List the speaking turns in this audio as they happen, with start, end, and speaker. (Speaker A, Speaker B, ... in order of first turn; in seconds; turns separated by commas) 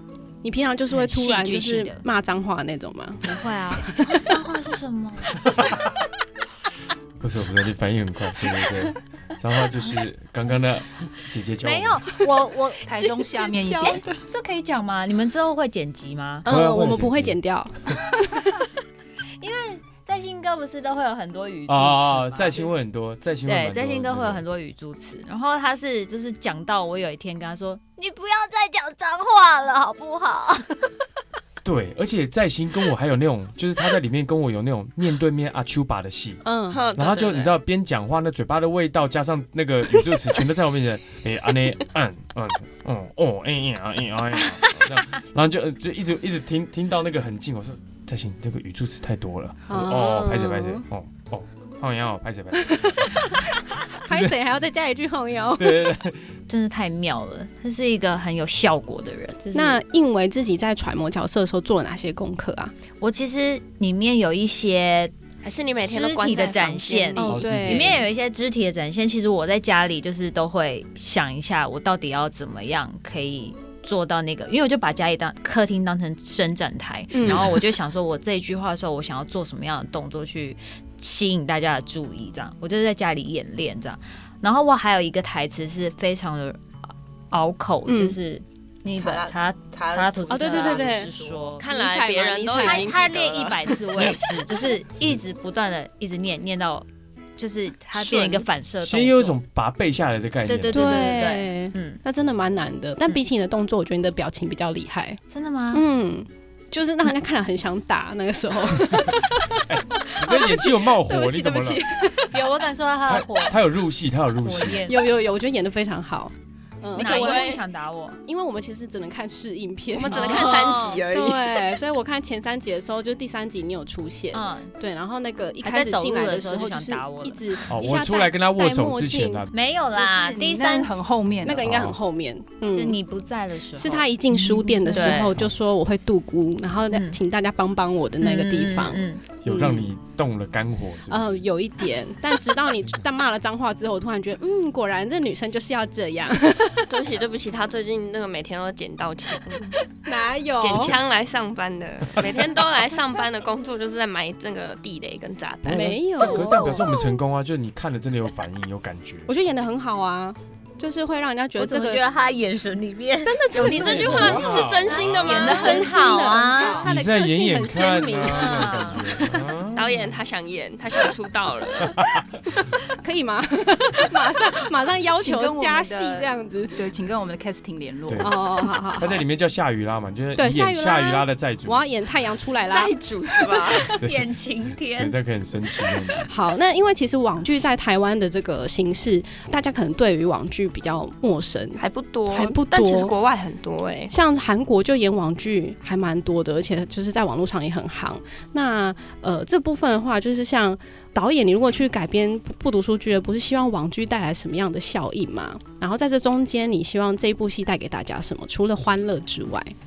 Speaker A: 0.4-3.3, Speaker B: 0.9-2.0, Speaker B: 3.2-5.5, Speaker A: 3.9-4.2, Speaker C: 7.2-12.1, Speaker B: 11.6-16.5, Speaker D: 12.8-14.1, Speaker A: 16.4-18.4, Speaker C: 16.5-17.4, Speaker B: 19.4-22.7, Speaker C: 21.7-24.5, Speaker B: 23.5-30.9, Speaker C: 31.6-36.4, Speaker A: 36.4-36.8, Speaker E: 36.7-37.5, Speaker C: 37.0-53.3, Speaker A: 49.7-50.8, Speaker A: 52.6-56.0, Speaker C: 54.1-54.4, Speaker C: 55.6-56.4, Speaker B: 56.5-59.8, Speaker A: 59.5-62.7, Speaker B: 63.0-65.1, Speaker E: 65.4-67.5, Speaker B: 65.8-86.6, Speaker A: 67.2-68.0, Speaker C: 67.2-68.0, Speaker A: 77.1-77.5, Speaker C: 77.2-77.5, Speaker B: 87.3-91.7, Speaker A: 87.9-88.2, Speaker D: 88.9-90.5, Speaker A: 90.3-91.1, Speaker E: 90.5-94.2, Speaker A: 91.7-92.9, Speaker B: 92.6-96.9, Speaker B: 97.4-99.4, Speaker E: 98.0-98.5, Speaker C: 98.8-100.9, Speaker B: 100.5-102.0, Speaker A: 100.7-105.2, Speaker B: 105.3-105.8, Speaker A: 105.7-112.4, Speaker C: 109.7-111.9, Speaker B: 112.3-113.6, Speaker C: 113.1-114.9, Speaker B: 114.4-115.1, Speaker A: 114.9-117.6, Speaker E: 116.9-117.6, Speaker B: 117.0-118.2, Speaker A: 118.2-129.5, Speaker E: 119.9-121.8, Speaker B: 120.1-120.5, Speaker B: 124.3-124.7, Speaker B: 125.6-127.6, Speaker C: 127.7-129.6, Speaker B: 129.5-131.0, Speaker D: 129.9-131.7, Speaker C: 131.4-132.0, Speaker A: 131.4-133.0, Speaker B: 132.7-135.4, Speaker A: 133.8-139.9, Speaker B: 136.9-137.2, Speaker B: 138.2-139.5, Speaker C: 139.4-141.4, Speaker A: 141.1-146.9, Speaker E: 146.9-149.8, Speaker A: 150.1-151.0, Speaker B: 150.6-151.0, Speaker E: 150.7-155.8, Speaker C: 152.2-152.7, Speaker C: 155.6-159.3, Speaker A: 155.7-157.0, Speaker A: 159.3-162.0, Speaker B: 161.6-166.8, Speaker A: 163.2-164.7, Speaker C: 163.5-165.4, Speaker E: 163.6-166.0, Speaker A: 165.2-168.6, Speaker D: 166.3-166.9, Speaker C: 166.7-170.2, Speaker B: 168.2-169.1, Speaker E: 168.4-168.7, Speaker E: 169.7-172.0, Speaker A: 172.9-176.8, Speaker D: 175.2-178.3, Speaker C: 178.1-178.4, Speaker A: 178.2-179.2, Speaker C: 178.9-181.9, Speaker A: 180.4-182.9, Speaker E: 182.6-183.9, Speaker B: 183.6-185.2, Speaker C: 183.8-184.3, Speaker C: 184.9-186.3, Speaker A: 186.3-193.1, Speaker E: 191.8-194.2, Speaker A: 194.1-209.7